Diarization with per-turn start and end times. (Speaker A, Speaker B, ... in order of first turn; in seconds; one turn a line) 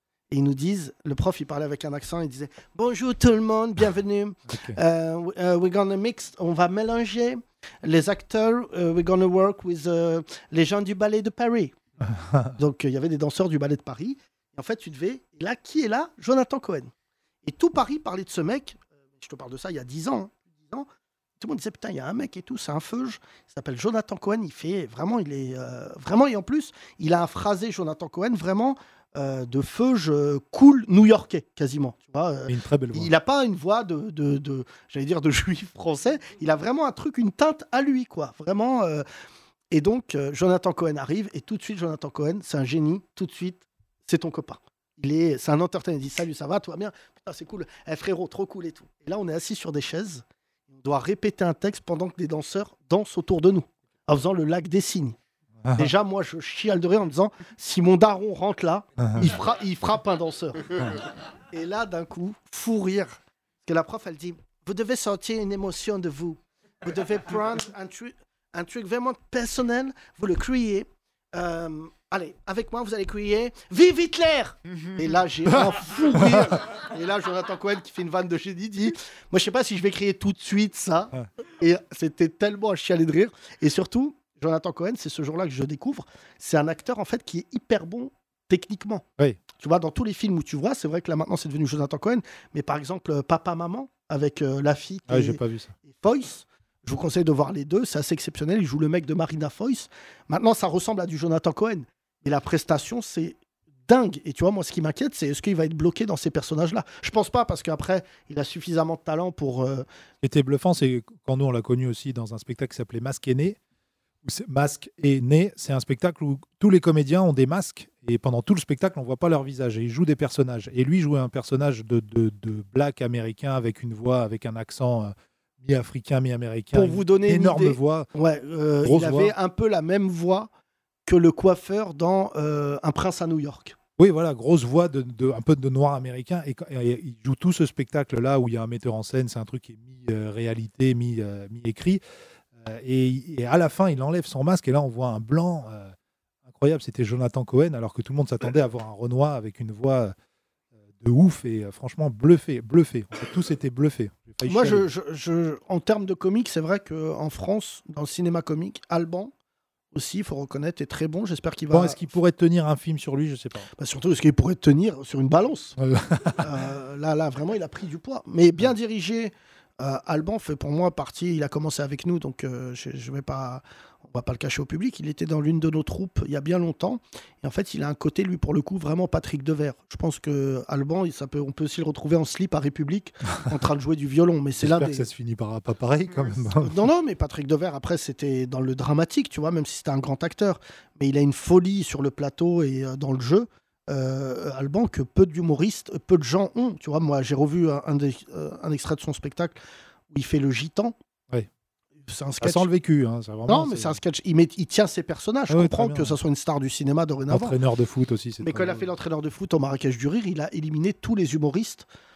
Speaker A: 0.3-11.7
Speaker B: 4.5-4.8
Speaker B: 12.0-12.6
Speaker A: 12.6-16.9
Speaker A: 17.4-20.9
Speaker A: 21.4-39.0
Speaker B: 32.5-33.1
Speaker A: 39.7-55.1
Speaker B: 55.6-55.9
Speaker A: 55.8-61.0
Speaker B: 59.0-59.3
Speaker A: 61.5-89.0
Speaker A: 89.6-109.8
Speaker B: 95.1-95.7
Speaker B: 110.2-113.6
Speaker B: 114.2-128.1
Speaker A: 126.7-130.5
Speaker B: 128.8-129.3
Speaker A: 131.1-133.8
Speaker B: 134.0-142.0
Speaker B: 142.6-145.9
Speaker B: 146.4-150.1
Speaker B: 151.0-154.9
Speaker A: 154.4-159.3
Speaker A: 159.9-162.0
Speaker B: 161.7-163.7
Speaker A: 163.8-165.8
Speaker B: 165.8-166.6
Speaker A: 166.4-185.1
Speaker B: 184.6-186.8
Speaker A: 186.6-199.6
Speaker A: 200.1-200.9
Speaker A: 202.1-202.7
Speaker B: 202.4-204.0
Speaker A: 203.5-207.6
Speaker B: 205.5-206.2
Speaker B: 207.3-208.9
Speaker A: 208.4-211.8